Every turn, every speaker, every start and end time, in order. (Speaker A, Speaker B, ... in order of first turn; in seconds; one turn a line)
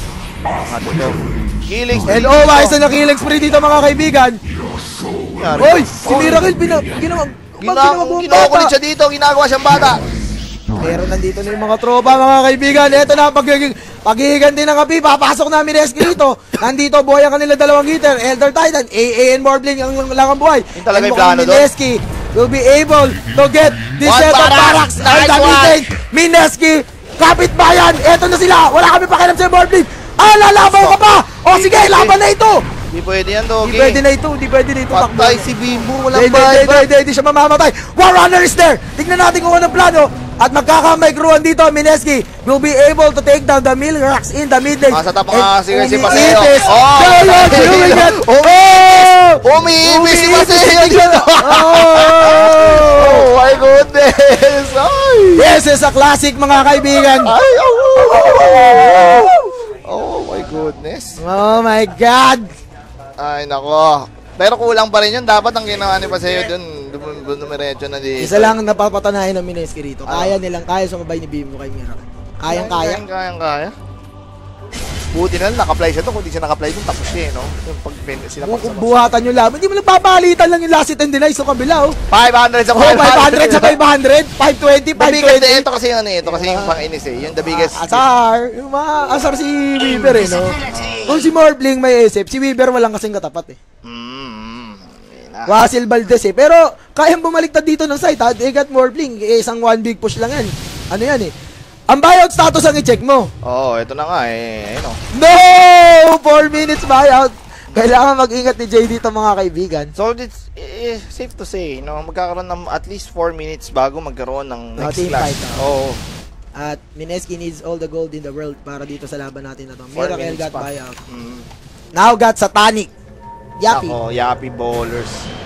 Speaker A: 0.7-2.8
Speaker B: 2.1-4.4
Speaker A: 5.3-6.5
Speaker B: 5.5-8.7
Speaker A: 7.6-10.0
Speaker B: 10.8-32.6
Speaker A: 20.8-21.7
Speaker A: 24.0-25.8
Speaker A: 30.6-32.2
Speaker A: 32.9-34.0
Speaker B: 33.6-35.5
Speaker A: 34.9-36.9
Speaker B: 36.1-53.3
Speaker A: 44.9-55.5
Speaker B: 55.4-57.3
Speaker A: 57.2-61.2
Speaker B: 58.1-59.5
Speaker B: 61.2-62.5
Speaker A: 63.2-68.5
Speaker B: 68.2-73.0
Speaker A: 70.1-70.4
Speaker A: 72.5-73.8
Speaker A: 75.1-79.1
Speaker B: 78.4-82.0
Speaker A: 82.1-83.8
Speaker B: 82.7-85.7
Speaker A: 85.0-88.0
Speaker B: 86.2-86.8
Speaker B: 87.5-93.6
Speaker A: 90.0-91.3
Speaker A: 93.8-95.5
Speaker B: 95.5-101.3
Speaker B: 101.9-103.3
Speaker A: 103.4-105.0
Speaker B: 105.1-109.9
Speaker A: 110.0-116.0
Speaker B: 114.8-115.7
Speaker B: 116.6-121.0
Speaker A: 119.9-121.5
Speaker B: 122.0-122.9
Speaker B: 123.6-124.0
Speaker A: 123.7-125.3